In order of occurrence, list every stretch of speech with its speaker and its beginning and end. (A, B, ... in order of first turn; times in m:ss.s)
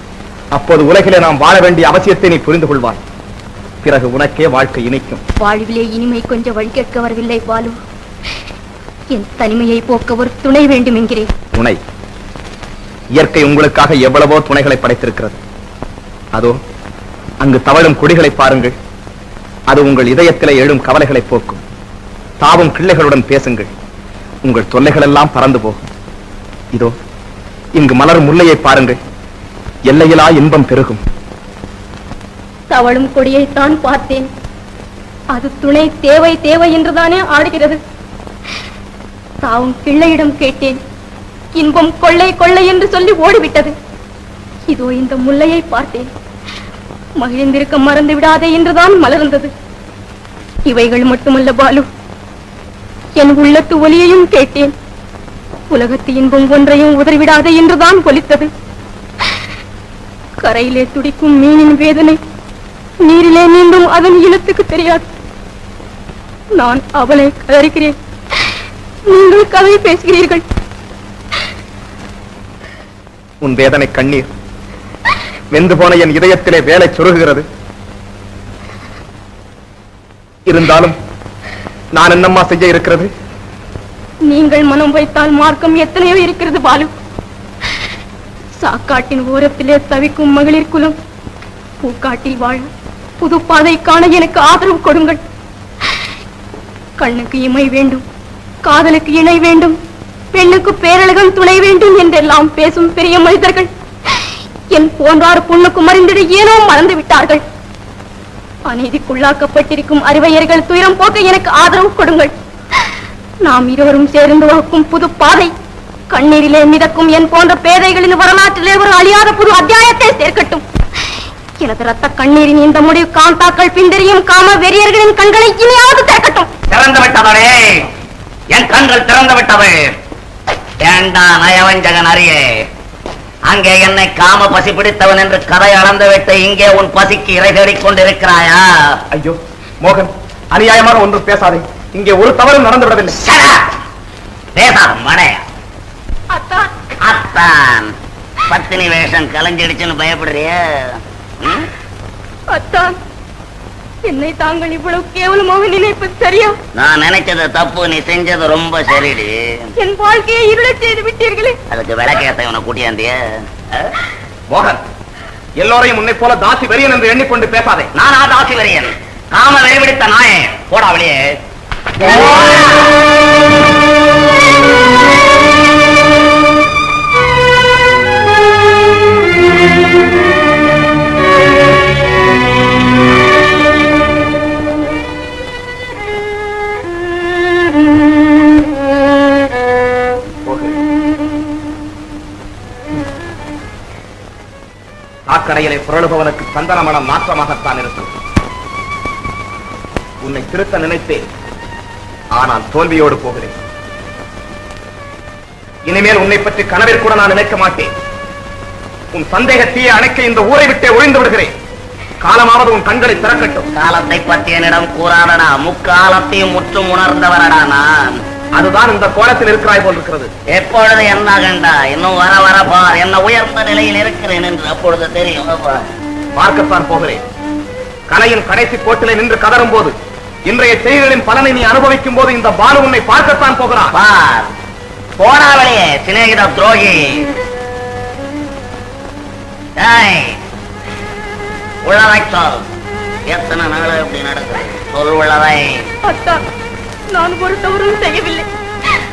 0:00.5-0:03.0 A
0:03.8-0:05.2 A
0:05.4-0:07.8 B
0:09.1-0:11.3 B
0:13.2-0:15.4 A
0:17.4-0:18.7 A
0:19.7-0:21.6 A
0:22.4-0:23.7 A
0:24.4-0:25.8 A
0:27.8-0:29.0 A
0:29.9-0:31.0 A
0:32.7-0:34.3 C
0:35.3-0:37.8 C
0:39.4-0:40.8 C
0:41.5-0:43.7 C
0:44.7-0:46.1 C
0:47.2-0:49.5 C
0:50.7-0:51.9 C
0:53.2-0:54.7 C
0:55.7-0:58.5 C
1:00.4-1:02.2 C
1:03.0-1:05.1 C
1:06.6-1:08.0 C
1:09.1-1:10.4 C
1:13.4-1:14.3 A
1:15.5-1:17.4 A
1:20.5-1:21.0 A
1:22.0-1:23.1 A
1:24.3-1:26.9 C
1:28.6-1:31.0 C
1:31.8-1:32.7 C
1:33.2-1:35.2 C
1:37.0-1:38.0 C
1:38.6-1:39.8 C
1:40.3-1:47.4 C
1:48.7-1:52.3 C
1:53.4-1:55.5 C
1:56.1-2:00.6 C
2:01.6-2:06.5 C
2:06.7-2:07.9 D
2:08.5-2:09.9 D
2:10.8-2:12.4 D
2:13.5-2:18.7 D
2:19.1-2:23.2 A
2:23.2-2:23.7 D
2:24.6-2:25.4 D
2:26.3-2:26.7 C
2:27.0-2:27.9 D
2:28.5-2:30.6 D
2:31.4-2:31.7 D
2:32.5-2:32.9 C
2:34.0-2:36.6 C
2:36.7-2:39.7 D
2:39.8-2:41.6 C
2:41.7-2:43.2 D
2:44.5-2:44.8 A
2:45.6-2:47.9 A
2:47.9-2:51.4 D
2:52.0-2:53.0 D
3:10.4-3:10.8 A
3:15.3-3:18.1 A
3:20.2-3:21.2 A
3:22.3-3:23.5 A
3:25.9-3:27.9 A
3:29.1-3:31.5 A
3:32.2-3:33.7 A
3:33.7-3:38.2 D
3:38.5-3:40.3 A
3:40.5-3:45.8 D
3:46.4-3:47.2 A
3:48.1-3:49.9 A
3:50.5-3:54.0 A
3:53.9-3:54.5 D
3:55.2-3:57.3 D
3:59.8-4:00.4 D
4:01.8-4:02.6 D
4:03.3-4:05.8 D
4:06.0-4:06.4 C
4:07.1-4:08.5 C